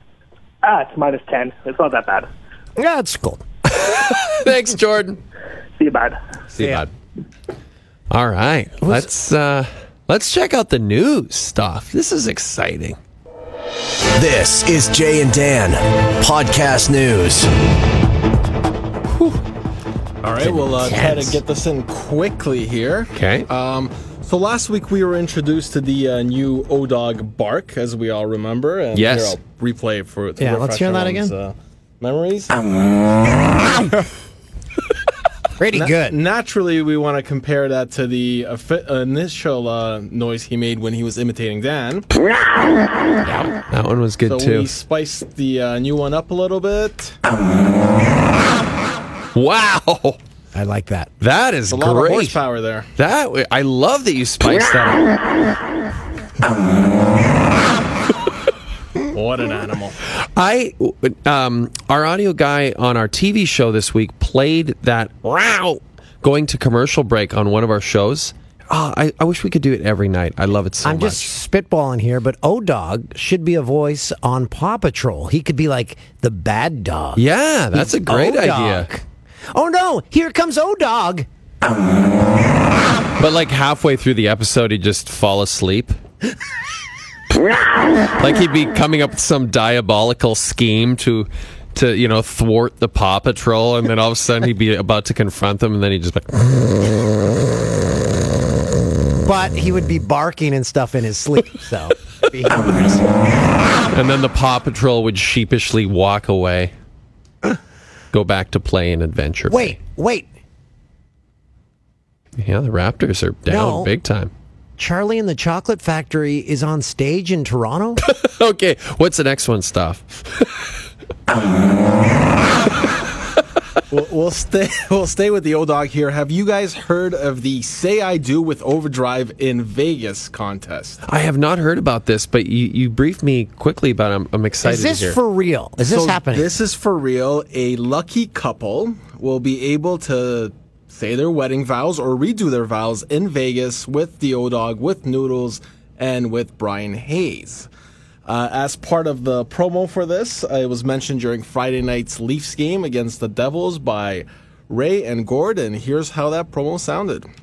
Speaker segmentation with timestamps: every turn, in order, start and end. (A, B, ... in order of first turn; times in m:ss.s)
0:00.6-0:02.3 A
0:02.8-0:03.4 B
0:03.7-0:05.2 C
0:05.8-0:06.2 A
0:06.5-0:06.9 C
0:06.6-0:06.8 B
0:08.1-0:13.0 C
0:08.8-0:09.1 B
0:14.2-0:17.5 D
0:19.1-0:19.4 C
0:20.2-0:32.6 E
0:20.6-0:21.4 B
0:23.1-0:23.5 C
0:28.9-0:29.4 C
0:30.4-0:31.3 B
0:35.6-0:36.2 B
0:35.7-0:42.1 E
0:43.3-0:44.7 C
0:44.3-0:47.2 E
0:49.4-0:50.2 C
0:50.5-0:51.1 B
0:51.2-0:52.4 C
0:51.7-0:52.9 E
0:53.0-0:55.1 C
0:59.1-1:00.0 E
1:00.2-1:11.3 C
1:10.8-1:21.3 B
1:17.2-1:18.9 C
1:23.2-1:26.0 C
1:28.2-1:36.7 C
1:39.2-1:43.1 B
1:43.9-1:46.7 C
1:48.1-1:49.8 C
1:49.5-1:50.3 B
1:52.4-1:54.3 C
1:53.5-1:53.9 B
1:54.8-1:58.0 B
1:58.0-2:00.5 C
2:03.9-2:11.0 E
2:11.1-2:15.2 C
2:14.6-2:16.6 B
2:15.9-2:27.7 E
2:28.3-2:37.3 E